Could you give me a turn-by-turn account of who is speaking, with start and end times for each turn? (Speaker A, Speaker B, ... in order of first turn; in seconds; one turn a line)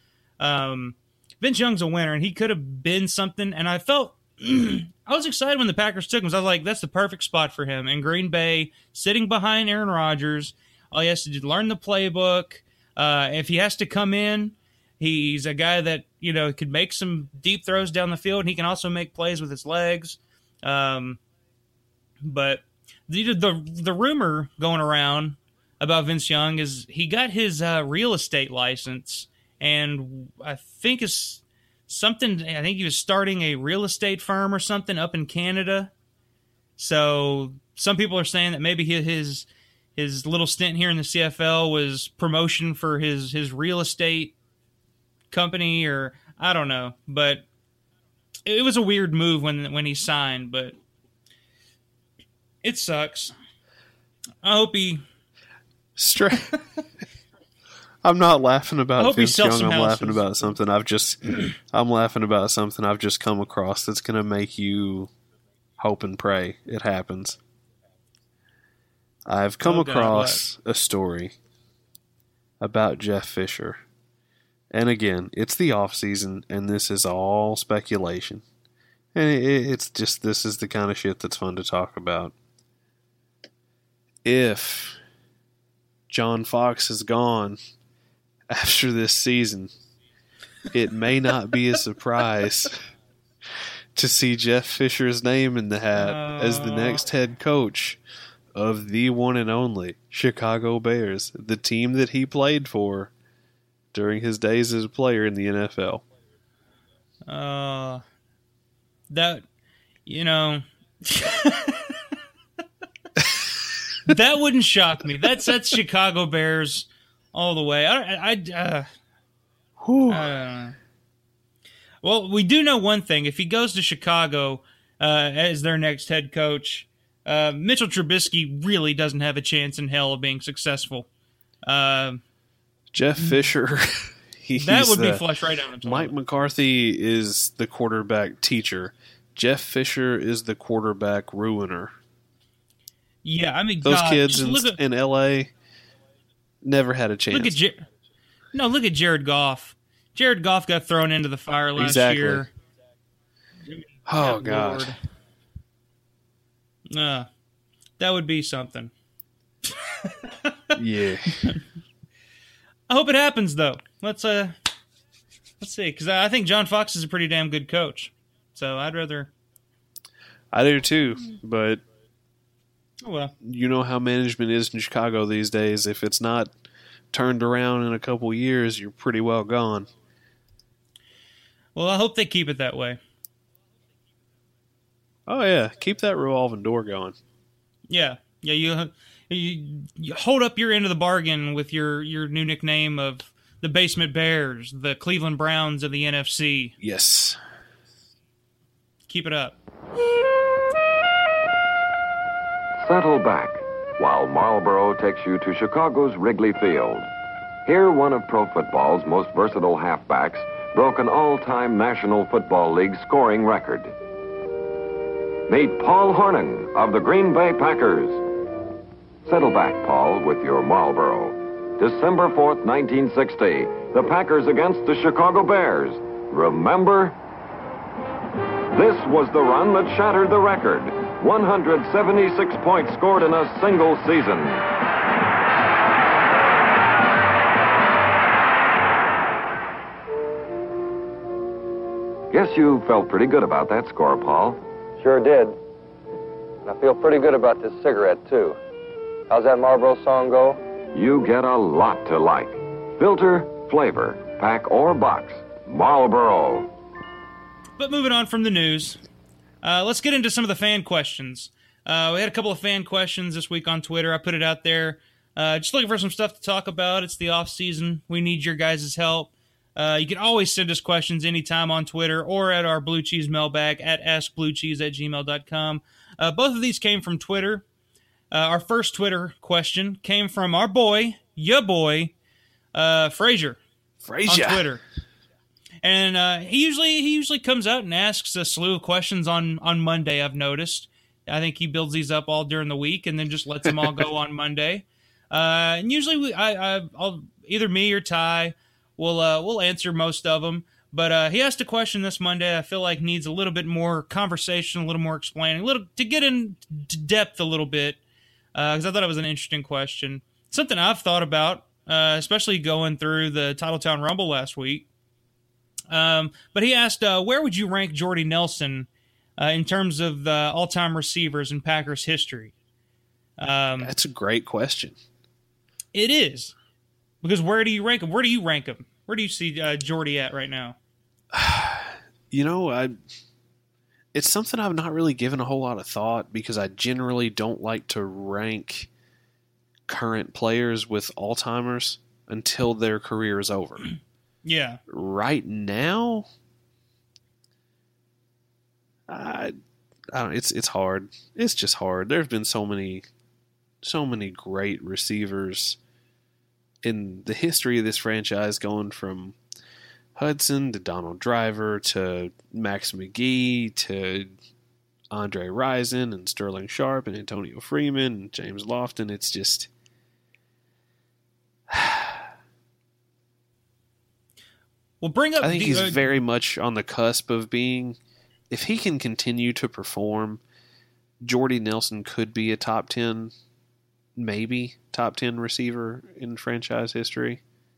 Speaker A: 0.4-21.2
Speaker A: 22.2-35.9
Speaker A: 36.8-44.3
Speaker A: 45.3-47.5
Speaker A: 48.5-50.7
Speaker A: 52.6-53.3
Speaker A: 54.4-55.0
Speaker B: 56.0-56.5
Speaker B: 58.0-65.1
Speaker A: 59.0-60.6
Speaker B: 65.8-67.4
Speaker B: 69.3-71.3
Speaker A: 69.6-70.5
Speaker B: 72.6-73.8
Speaker B: 74.7-78.4
Speaker B: 79.1-82.3
Speaker B: 84.2-85.0
Speaker B: 86.1-87.6
Speaker B: 88.5-89.7
Speaker B: 90.7-92.8
Speaker B: 94.0-98.0
Speaker A: 96.0-97.0
Speaker B: 98.5-103.1
Speaker B: 103.9-106.0
Speaker A: 107.3-108.0
Speaker A: 109.1-109.5
Speaker A: 110.1-112.0
Speaker A: 114.1-118.9
Speaker B: 119.8-120.3
Speaker A: 120.1-120.8
Speaker A: 122.0-131.1
Speaker A: 131.7-132.2
Speaker B: 132.9-135.3
Speaker A: 134.6-136.2
Speaker B: 135.8-142.0
Speaker A: 143.2-144.8
Speaker B: 143.8-145.5
Speaker B: 146.6-147.6
Speaker A: 147.3-147.9
Speaker A: 148.5-152.5
Speaker B: 151.8-152.5
Speaker A: 153.7-155.0
Speaker B: 154.1-154.9
Speaker A: 156.9-157.3
Speaker A: 158.0-158.9
Speaker A: 159.7-160.7
Speaker B: 160.8-161.6
Speaker A: 162.9-164.6
Speaker A: 165.6-169.3
Speaker B: 170.5-171.8
Speaker A: 173.0-173.3
Speaker B: 173.4-176.5
Speaker B: 177.1-179.9
Speaker A: 181.8-183.0
Speaker B: 185.3-187.2
Speaker A: 187.9-196.8
Speaker B: 196.8-197.4
Speaker A: 199.1-199.6
Speaker C: 202.8-207.1
Speaker C: 207.7-213.9
Speaker C: 215.5-218.2
Speaker C: 219.3-227.2
Speaker C: 228.7-234.7
Speaker C: 242.3-244.6
Speaker D: 245.0-245.6
Speaker D: 246.7-248.6
Speaker D: 249.3-250.6
Speaker C: 250.9-256.7
Speaker A: 257.8-259.0
Speaker A: 259.6-277.6
Speaker A: 278.3-282.1
Speaker A: 282.7-283.6
Speaker B: 284.0-284.7
Speaker A: 284.2-284.8
Speaker A: 285.8-308.0
Speaker A: 308.6-314.9
Speaker A: 315.9-322.5
Speaker A: 323.4-323.9
Speaker B: 323.8-325.0
Speaker A: 325.9-326.5
Speaker A: 327.2-330.8
Speaker B: 331.3-333.0
Speaker B: 334.1-338.9
Speaker B: 339.9-343.9
Speaker A: 344.4-344.8
Speaker B: 344.9-346.3
Speaker B: 349.1-349.5
Speaker B: 350.1-353.1
Speaker B: 353.8-355.8
Speaker B: 356.8-359.4
Speaker B: 360.2-364.4
Speaker B: 365.1-369.7
Speaker B: 371.7-372.3
Speaker A: 375.0-376.2
Speaker B: 375.4-378.0
Speaker B: 378.5-380.4
Speaker B: 381.2-383.3
Speaker B: 384.2-387.4